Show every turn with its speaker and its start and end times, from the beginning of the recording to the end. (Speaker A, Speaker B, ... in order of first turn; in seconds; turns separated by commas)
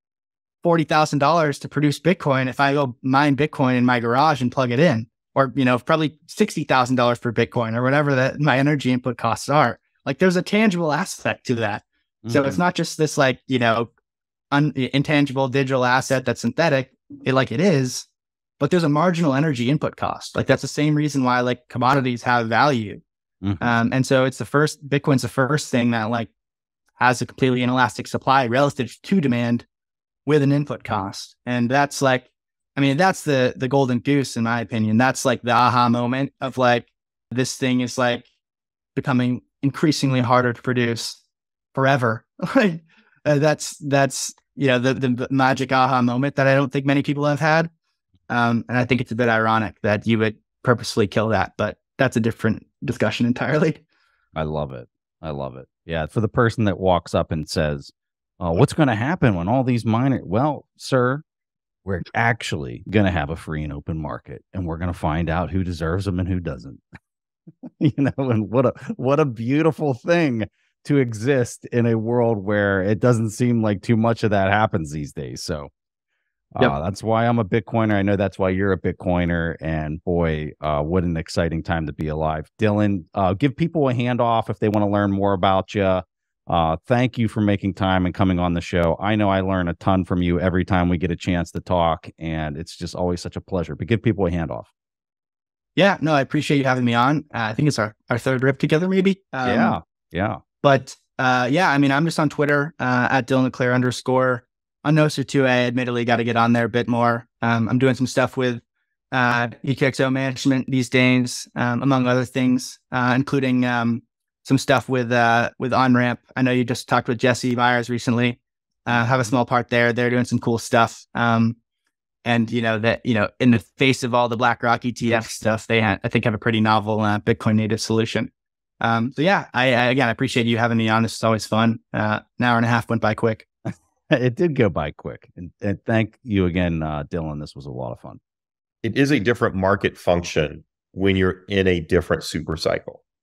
Speaker A: 0.6-13.9, Speaker B: 12.2-12.6, Speaker A: 14.5-18.1, Speaker A: 18.6-23.0, Speaker B: 23.4-23.7, Speaker A: 23.6-26.3, Speaker A: 27.0-29.6, Speaker A: 30.2-38.2, Speaker A: 38.9-41.2, Speaker A: 41.7-47.7, Speaker A: 48.3-53.8, Speaker B: 54.3-61.2, Speaker B: 61.8-66.8, Speaker B: 67.6-75.7, Speaker B: 76.6-94.7, Speaker A: 95.8-99.8, Speaker B: 99.4-100.4, Speaker A: 100.6-121.5, Speaker A: 122.2-133.4, Speaker B: 134.1-138.2, Speaker C: 138.8-143.0